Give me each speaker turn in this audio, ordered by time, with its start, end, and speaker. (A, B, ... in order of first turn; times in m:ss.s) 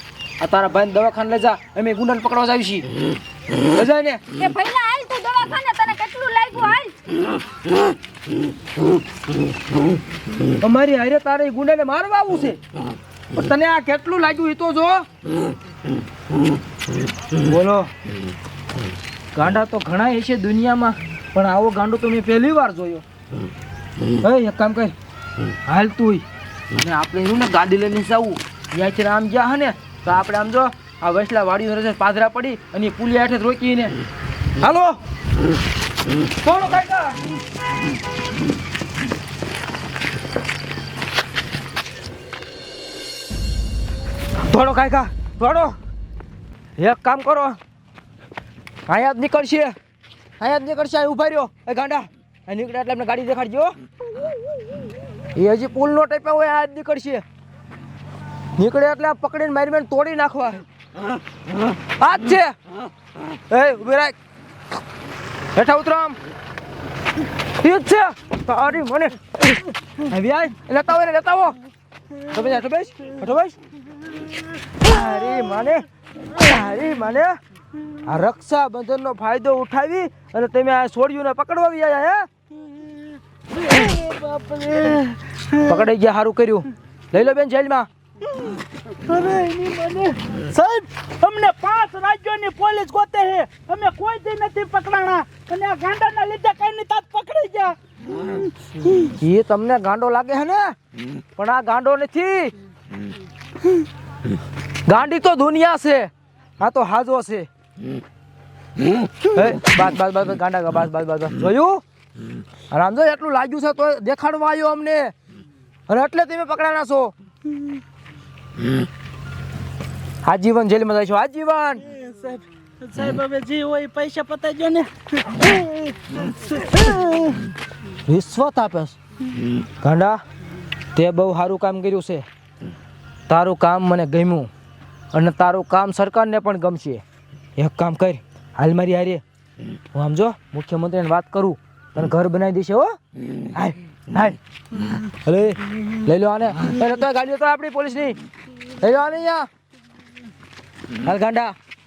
0:00.4-0:02.8 A
0:03.7-0:04.2 A
0:04.4-0:06.9 B
0:10.6-0:12.6 A
0:13.3-0:15.0 A
0:17.4-0:17.9 A
0:19.3-0:23.0 A
0:24.2-0:24.9 A
0:25.7-0:33.9 A
0:34.6-0:35.0 A
0:36.4-0:37.2 A
0:44.5-0:45.7 A
0:46.8-0:47.6 A
0:48.9-0:49.7 A
0:50.4-0:53.7 A
0:55.4-0:57.2 A
0:58.6-1:00.6 A
1:02.0-1:02.6 A
1:03.5-1:04.1 A
1:05.5-1:06.2 A
1:07.6-1:11.6 A
1:12.3-1:13.6 A
1:14.8-1:17.4 A
1:18.1-1:22.3 A
1:24.7-1:24.9 C
1:25.6-1:27.9 A
1:29.1-1:37.7 C
1:39.2-1:40.7 A
1:41.4-1:42.5 A
1:44.9-1:47.5 A
1:49.3-1:51.8 A
1:52.7-1:55.1 A
1:55.9-1:57.1 A
2:00.2-2:01.8 A
2:01.9-2:04.8 C
2:08.1-2:09.0 A
2:09.8-2:10.2 A
2:10.9-2:12.2 A
2:13.3-2:14.5 A
2:15.1-2:17.0 A
2:17.6-2:19.2 A
2:19.9-2:22.9 A
2:23.5-2:24.4 A
2:25.2-2:28.2 A
2:28.8-2:29.4 A
2:31.0-2:31.6 A